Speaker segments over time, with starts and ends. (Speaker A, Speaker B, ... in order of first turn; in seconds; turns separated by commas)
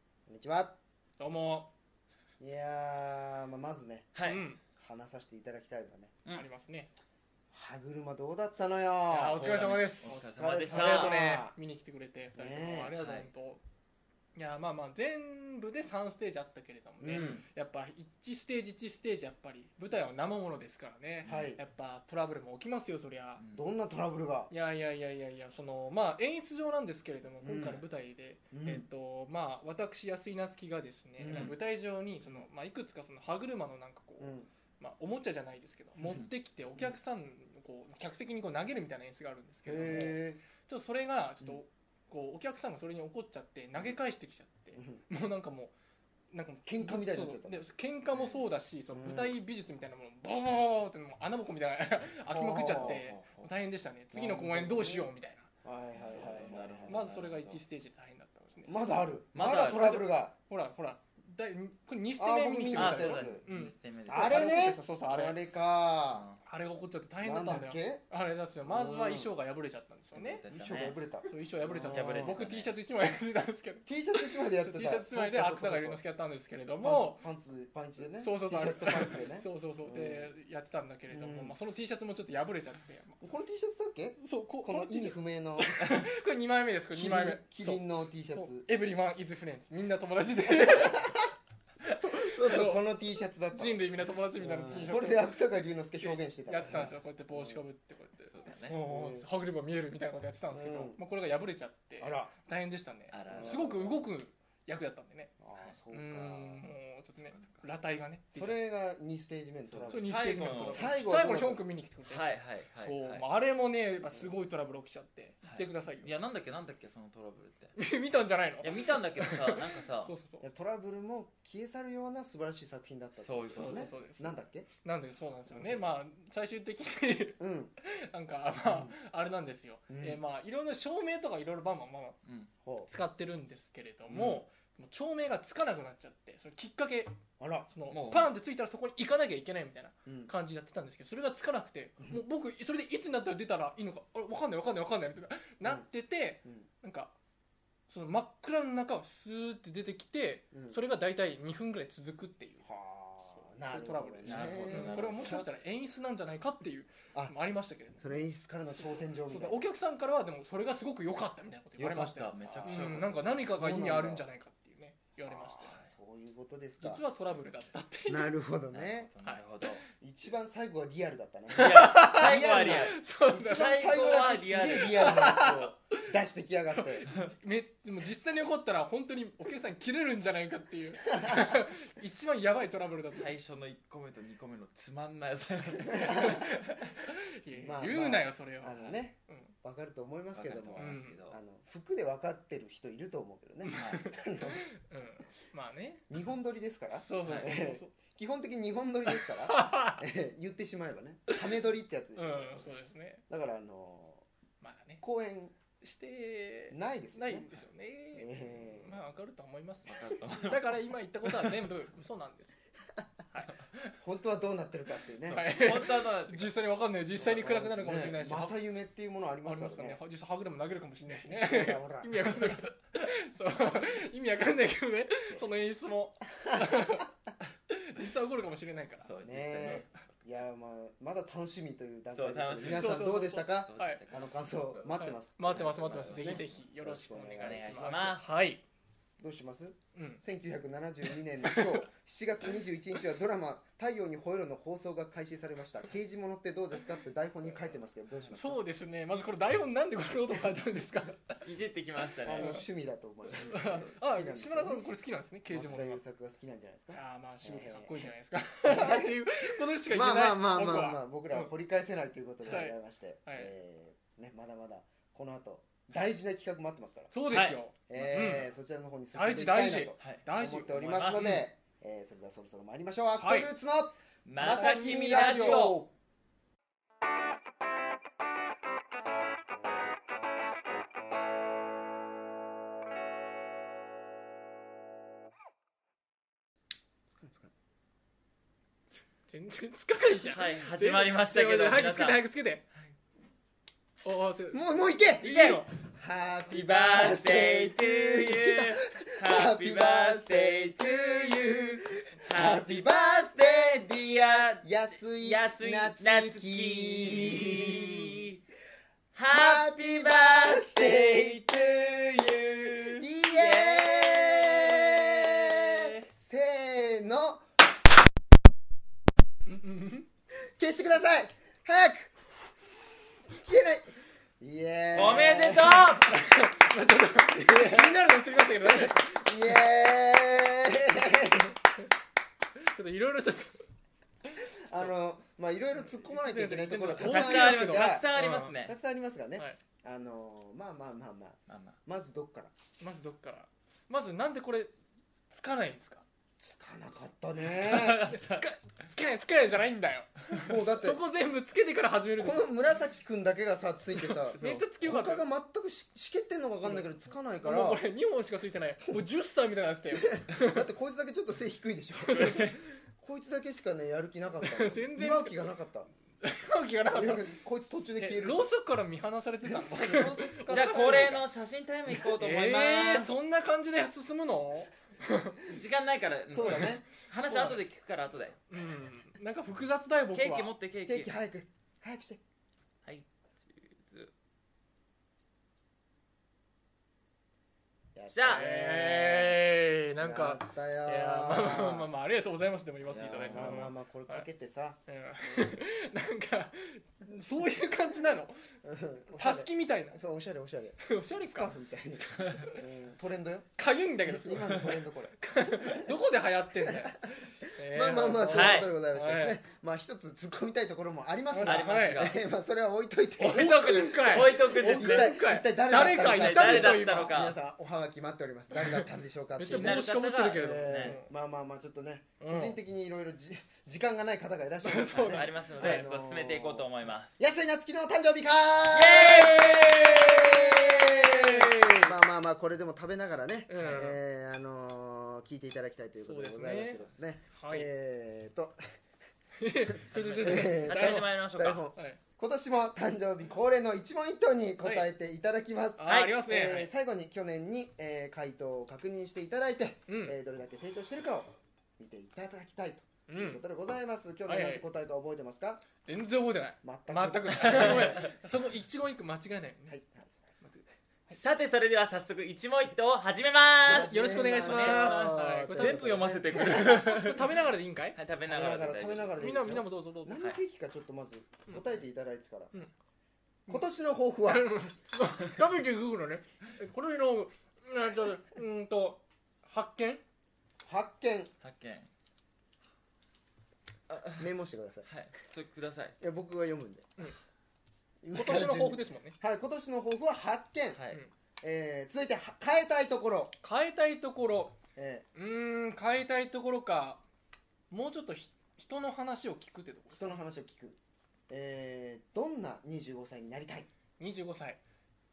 Speaker A: 0.3-0.8, Speaker B: 1.2-1.7, Speaker A: 2.4-4.1, Speaker C: 4.1-4.4, Speaker B: 4.2-4.6, Speaker A: 4.8-6.1, Speaker B: 6.3-6.9, Speaker A: 7.5-11.6, Speaker B: 9.1-13.6, Speaker C: 9.4-11.2, Speaker A: 12.3-12.9, Speaker C: 12.9-13.3, Speaker B: 14.3-23.4, Speaker A: 17.0-17.4, Speaker C: 17.1-17.4, Speaker C: 21.2-21.5, Speaker A: 21.2-21.6, Speaker C: 23.4-23.6, Speaker A: 23.5-24.5, Speaker B: 24.5-45.7, Speaker A: 27.4-27.8, Speaker A: 28.5-28.9, Speaker A: 31.2-31.6, Speaker C: 31.3-31.6, Speaker A: 34.2-34.5, Speaker A: 39.6-40.4, Speaker A: 44.7-45.0, Speaker B: 46.3-55.5, Speaker A: 46.6-47.6, Speaker C: 48.1-48.4, Speaker A: 48.9-49.3, Speaker A: 52.2-53.0, Speaker C: 52.7-53.5, Speaker A: 54.1-55.1, Speaker A: 55.6-57.1, Speaker C: 56.0-57.6, Speaker B: 56.1-58.8, Speaker A: 58.7-60.3, Speaker C: 59.3-60.1, Speaker B: 60.5-65.3, Speaker A: 62.2-63.4, Speaker C: 62.7-64.7, Speaker A: 64.1-66.3, Speaker C: 66.1-66.4, Speaker B: 66.4-70.4, Speaker A: 67.2-68.0, Speaker A: 68.7-69.3, Speaker C: 70.1-71.0, Speaker A: 70.5-72.3, Speaker B: 71.3-77.2, Speaker C: 71.9-72.7, Speaker A: 73.8-76.0, Speaker A: 76.8-80.3, Speaker B: 78.2-83.2, Speaker A: 81.1-81.5, Speaker A: 83.2-86.0, Speaker B: 84.2-91.1, Speaker A: 86.9-88.7, Speaker A: 90.4-91.3, Speaker B: 91.9-92.8, Speaker A: 91.9-93.8, Speaker B: 93.5-95.3, Speaker A: 94.4-97.6, Speaker B: 96.0-105.3, Speaker C: 98.3-98.8, Speaker A: 98.8-99.3, Speaker A: 100.5-101.0, Speaker A: 102.0-102.3, Speaker C: 103.1-103.7, Speaker A: 103.3-104.0, Speaker A: 105.4-106.8, Speaker B: 105.9-108.5, Speaker C: 107.2-107.6, Speaker A: 108.3-111.6, Speaker C: 109.7-110.9, Speaker B: 109.9-116.1, Speaker C: 112.0-113.2, Speaker C: 115.4-117.7, Speaker B: 117.8-120.4, Speaker C: 118.6-120.1, Speaker A: 120.4-124.7, Speaker C: 123.2-123.9, Speaker B: 123.5-132.2, Speaker A: 125.5-125.8, Speaker A: 127.4-127.7, Speaker A: 128.6-128.9, Speaker A: 129.9-130.2, Speaker C: 132.2-132.5, Speaker A: 132.6-132.9, Speaker B: 132.9-137.1, Speaker A: 134.1-134.4, Speaker A: 137.4-137.7, Speaker B: 137.7-147.1, Speaker C: 137.9-138.3, Speaker A: 140.1-140.3, Speaker B: 147.9-152.7, Speaker A: 150.5-150.8, Speaker A: 152.6-155.5, Speaker B: 153.4-158.1, Speaker C: 154.2-155.4, Speaker A: 158.0-159.6, Speaker B: 159.3-165.8, Speaker C: 161.8-163.4, Speaker A: 162.6-164.2, Speaker A: 165.2-167.0, Speaker B: 166.8-168.3, Speaker A: 168.1-169.1, Speaker C: 168.7-169.8, Speaker A: 170.0-177.1, Speaker B: 171.5-173.8, Speaker C: 171.5-175.4, Speaker B: 174.9-176.1, Speaker B: 176.7-183.3, Speaker C: 183.1-186.7, Speaker A: 185.9-186.4, Speaker B: 186.1-189.5, Speaker A: 187.5-194.6, Speaker C: 190.3-191.4, Speaker B: 190.8-191.2, Speaker B: 193.6-196.1, Speaker C: 193.7-194.0, Speaker A: 196.1-202.7, Speaker B: 196.9-197.9, Speaker C: 197.2-197.5, Speaker B: 199.1-200.0, Speaker B: 202.2-203.2, Speaker A: 203.3-204.2, Speaker B: 204.6-205.0, Speaker A: 205.0-205.5, Speaker B: 205.8-212.6, Speaker A: 206.7-207.5, Speaker A: 208.1-209.0, Speaker C: 209.8-211.5, Speaker B: 213.3-213.9, Speaker A: 214.0-215.4, Speaker B: 215.3-218.6, Speaker C: 215.5-216.5, Speaker A: 217.2-220.0, Speaker B: 219.4-227.1, Speaker A: 221.2-222.3, Speaker B: 227.7-229.1, Speaker C: 229.0-230.1, Speaker A: 229.2-238.1, Speaker C: 232.1-234.9, Speaker B: 232.6-234.0, Speaker B: 234.9-238.6, Speaker C: 235.6-236.5, Speaker C: 237.4-238.2, Speaker A: 239.2-248.6, Speaker B: 239.9-240.2, Speaker B: 241.4-241.8, Speaker B: 248.3-251.3, Speaker C: 251.4-252.6, Speaker A: 252.2-254.9, Speaker B: 252.3-252.6, Speaker B: 253.2-256.0, Speaker A: 255.5-258.1, Speaker B: 256.9-261.5, Speaker A: 258.6-267.1, Speaker B: 262.4-263.5, Speaker B: 267.1-268.5, Speaker C: 267.3-267.6, Speaker A: 267.9-275.9, Speaker B: 269.1-271.4, Speaker C: 270.0-271.4, Speaker B: 273.2-273.5, Speaker C: 274.2-275.8, Speaker B: 274.5-275.8, Speaker A: 287.1-287.5, Speaker B: 289.3-292.6, Speaker C: 290.2-292.2, Speaker B: 294.0-294.6, Speaker A: 294.5-303.9, Speaker B: 295.2-295.7, Speaker C: 295.2-295.6, Speaker C: 296.5-308.4, Speaker A: 304.6-308.1, Speaker C: 309.1-316.0, Speaker A: 309.3-311.7, Speaker A: 312.9-317.4, Speaker B: 319.5-320.1, Speaker A: 320.4-322.1, Speaker A: 323.3-326.0, Speaker C: 324.9-326.1, Speaker B: 326.0-329.0, Speaker A: 327.3-328.0, Speaker A: 328.6-331.6, Speaker B: 332.6-333.6, Speaker B: 334.3-334.9, Speaker A: 334.6-338.1, Speaker B: 335.8-338.5, Speaker C: 337.0-338.8, Speaker A: 338.7-342.5, Speaker C: 341.5-341.8, Speaker B: 342.8-344.7, Speaker B: 345.3-346.0, Speaker A: 346.4-348.1, Speaker C: 347.6-348.4, Speaker B: 347.7-352.5, Speaker A: 350.3-351.0, Speaker A: 352.2-357.8, Speaker C: 354.2-354.6, Speaker B: 354.3-355.2, Speaker B: 357.4-360.7, Speaker A: 359.9-365.9, Speaker B: 362.0-362.5, Speaker C: 362.1-362.6, Speaker B: 364.4-365.4, Speaker B: 366.2-367.2, Speaker A: 366.9-368.5, Speaker B: 368.0-371.2, Speaker A: 369.4-371.2, Speaker C: 370.5-373.1, Speaker B: 372.0-375.4, Speaker C: 375.4-378.4, Speaker A: 376.3-377.6, Speaker B: 378.5-380.5, Speaker C: 380.1-381.1, Speaker A: 380.9-382.2, Speaker C: 382.8-384.1, Speaker A: 387.9-389.4, Speaker C: 388.1-388.4, Speaker B: 388.2-394.2, Speaker A: 390.0-391.9, Speaker C: 392.8-393.7, Speaker A: 392.9-394.8, Speaker B: 394.9-398.4, Speaker A: 398.6-403.5, Speaker B: 399.2-400.0, Speaker B: 400.8-401.5, Speaker C: 402.2-402.4, Speaker B: 402.3-402.6, Speaker B: 403.6-409.4, Speaker A: 404.0-405.2, Speaker A: 406.6-406.9, Speaker A: 407.4-419.8, Speaker C: 408.3-408.7, Speaker B: 411.3-412.1, Speaker C: 411.4-412.2, Speaker B: 413.2-417.1, Speaker C: 414.0-415.1, Speaker C: 415.7-417.4, Speaker B: 418.5-418.9, Speaker B: 419.4-421.1, Speaker C: 419.5-421.0, Speaker A: 420.4-438.6, Speaker B: 422.2-422.6, Speaker B: 424.6-425.9, Speaker C: 425.1-427.2, Speaker C: 428.7-429.6, Speaker B: 428.9-431.9, Speaker B: 433.5-434.0, Speaker B: 436.0-436.8, Speaker B: 437.3-437.7, Speaker B: 439.4-441.1, Speaker A: 439.9-455.6, Speaker C: 439.9-441.6, Speaker B: 441.7-442.0, Speaker B: 444.6-444.9, Speaker B: 445.8-446.7, Speaker C: 445.8-446.1, Speaker B: 449.9-450.1, Speaker B: 453.1-453.4, Speaker B: 454.3-454.6, Speaker B: 455.8-459.8, Speaker A: 456.6-458.1, Speaker C: 457.4-458.0, Speaker A: 459.7-460.1, Speaker C: 461.1-467.2, Speaker A: 463.6-467.0, Speaker B: 463.7-468.0, Speaker C: 467.9-469.3, Speaker A: 468.3-472.5, Speaker B: 469.2-470.3, Speaker A: 473.5-474.5, Speaker B: 474.2-480.0, Speaker A: 480.6-481.3, Speaker C: 481.4-481.9, Speaker C: 483.9-484.3, Speaker A: 484.2-484.9, Speaker C: 484.8-486.0, Speaker A: 486.0-486.9, Speaker A: 488.0-490.8, Speaker B: 488.1-489.1, Speaker C: 490.7-491.0, Speaker A: 491.4-493.3, Speaker B: 493.4-494.6, Speaker A: 494.8-495.1, Speaker B: 495.1-497.0, Speaker B: 497.7-500.2, Speaker A: 499.9-500.8, Speaker A: 501.3-503.7, Speaker B: 504.0-504.6